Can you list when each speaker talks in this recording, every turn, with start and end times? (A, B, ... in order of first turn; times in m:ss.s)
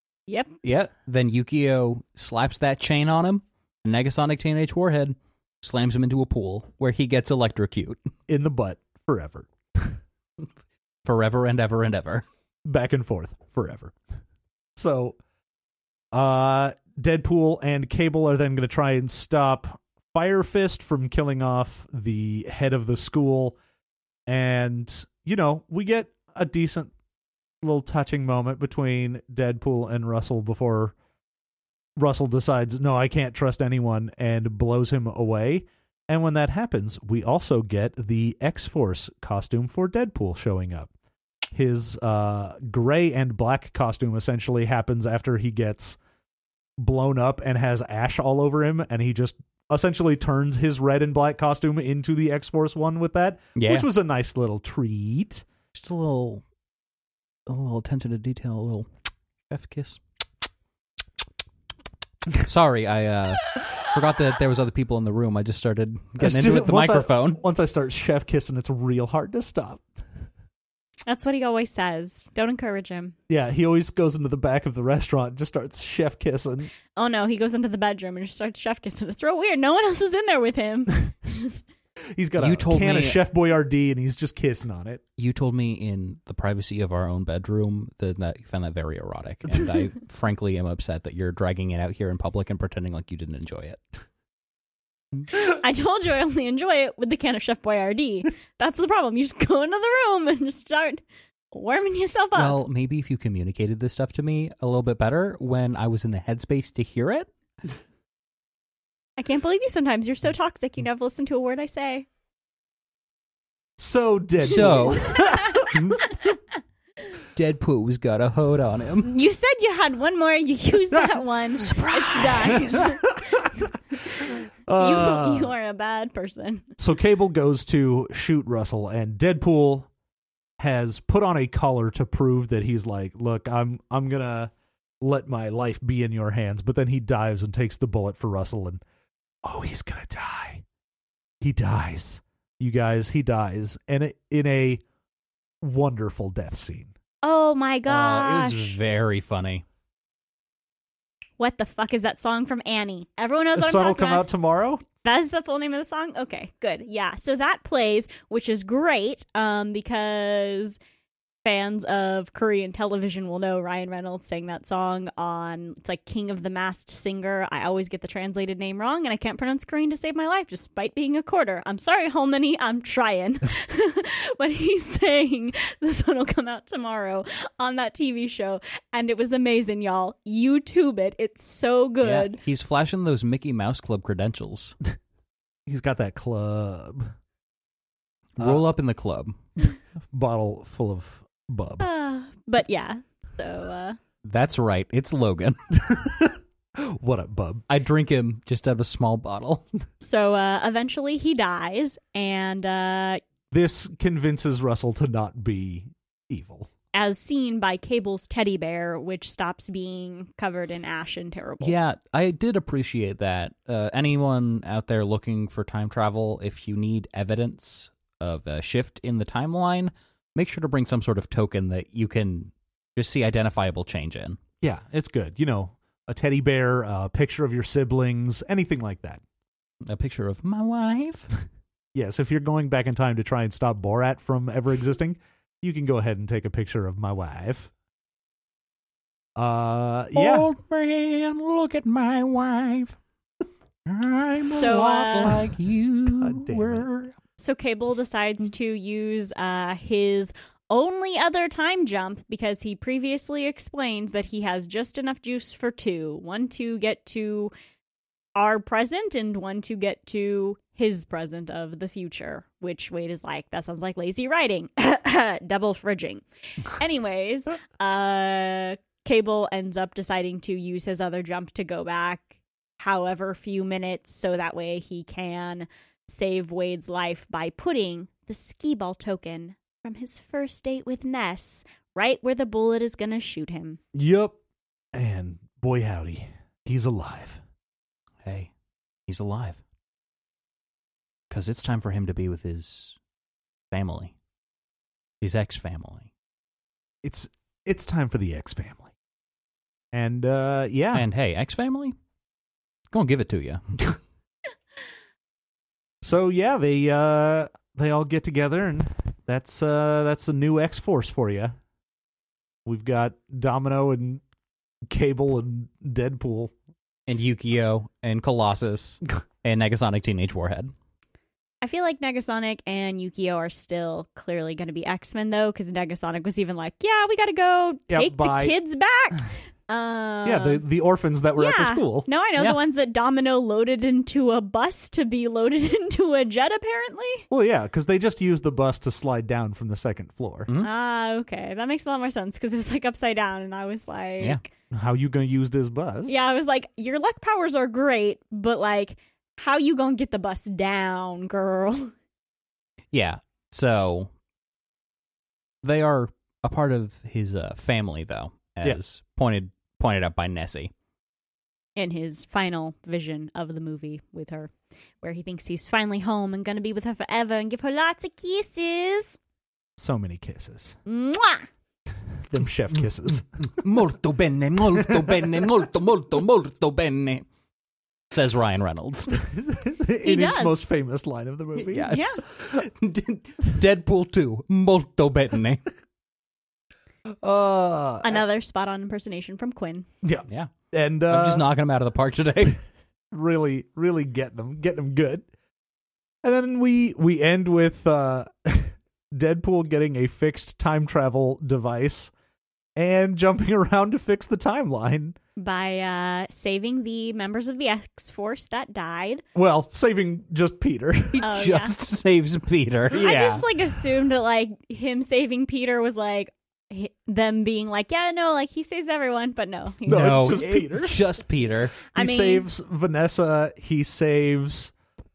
0:00.3-0:00.6 A
0:00.6-0:08.0 B
0:08.3-0:09.9 C
0:11.0-0:12.2 B
0:12.7-0:14.0 C
0:14.8-0:15.2 C
0:16.1-0:23.6 C
0:24.3-0:26.9 C
0:27.6-0:31.0 C
0:32.0-0:40.9 C
0:41.5-0:46.0 C
0:46.8-0:55.4 C
0:53.6-0:53.9 B
0:55.7-0:56.4 B
0:57.5-0:58.9 B
0:59.5-1:00.0 B
1:02.4-1:07.4 B
1:06.2-1:09.8 C
1:11.1-1:13.2 A
1:13.3-1:16.7 C
1:17.0-1:21.6 A
1:22.2-1:25.0 C
1:22.4-1:23.2 B
1:25.2-1:33.8 B
1:35.3-1:42.6 A
1:42.3-1:47.3 B
1:49.2-1:52.1 A
1:53.8-1:55.8 C
1:54.4-1:56.0 B
1:55.1-1:55.7 A
1:57.3-1:59.1 B
1:59.1-2:03.2 A
2:01.6-2:02.9 B
2:02.7-2:03.5 C
2:04.3-2:05.5 C
2:04.8-2:06.7 A
2:06.8-2:09.9 C
2:10.6-2:18.8 C
2:19.4-2:20.6 C
2:21.4-2:24.8 C
2:25.6-2:26.9 C
2:27.2-2:28.8 A
2:27.9-2:29.6 B
2:31.4-2:34.3 A
2:33.6-2:34.8 C
2:35.0-2:40.8 A
2:41.4-3:02.4 A
3:02.0-3:04.8 B
3:05.7-3:07.1 C
3:08.4-3:09.4 B
3:10.1-3:11.9 C
3:11.8-3:14.0 A
3:14.2-3:15.6 B
3:15.8-3:17.6 C
3:17.7-3:19.6 B
3:20.0-3:23.2 A
3:23.5-3:26.7 C
3:26.9-3:31.8 A
3:31.6-3:44.4 B
3:44.6-3:49.2 C
3:49.8-3:51.3 B
3:52.0-3:57.7 C
3:59.4-4:00.5 C
4:00.2-4:03.0 B
4:03.9-4:07.1 B
4:04.5-4:05.4 A
4:06.2-4:06.9 C
4:07.4-4:17.5 A
4:18.4-4:32.3 A
4:32.8-4:43.8 A
4:43.9-4:44.4 C
4:44.9-4:47.4 C
4:48.2-4:48.5 B
4:49.1-4:49.6 B
4:51.3-4:53.0 B
4:53.7-4:54.1 B
4:55.2-4:56.1 B
4:57.0-4:58.9 C
4:59.9-5:01.1 C
5:00.9-5:02.0 B
5:02.9-5:03.8 B
5:06.0-5:11.6 C
5:12.7-5:14.2 C
5:14.9-5:16.5 C
5:17.1-5:20.7 B
5:21.6-5:30.6 A
5:27.9-5:28.6 C
5:30.2-5:32.1 C
5:31.4-5:37.3 A
5:37.3-5:40.5 C
5:40.6-5:44.5 A
5:44.7-5:46.2 C
5:46.1-5:51.9 A
5:52.9-5:54.1 B
5:55.6-6:00.7 B
6:01.8-6:04.5 A
6:05.0-6:09.2 A
6:09.8-6:10.8 C
6:10.9-6:11.5 A
6:12.3-6:13.3 C
6:13.5-6:17.3 B
6:18.1-6:19.2 B
6:19.2-6:22.0 C
6:20.0-6:20.6 A
6:21.6-6:25.6 B
6:21.9-6:22.2 A
6:27.2-6:28.2 C
6:28.0-6:29.9 A
6:30.0-6:31.5 C
6:31.1-6:32.6 B
6:33.1-6:35.3 C
6:36.2-6:42.1 C
6:42.8-6:45.2 C
6:45.4-6:49.2 A
6:49.4-6:51.3 C
6:51.2-6:53.4 B
6:51.2-6:51.8 A
6:52.9-7:00.4 A
6:59.9-7:01.1 C
6:59.9-7:01.7 B
7:01.7-7:02.5 A
7:02.0-7:04.7 C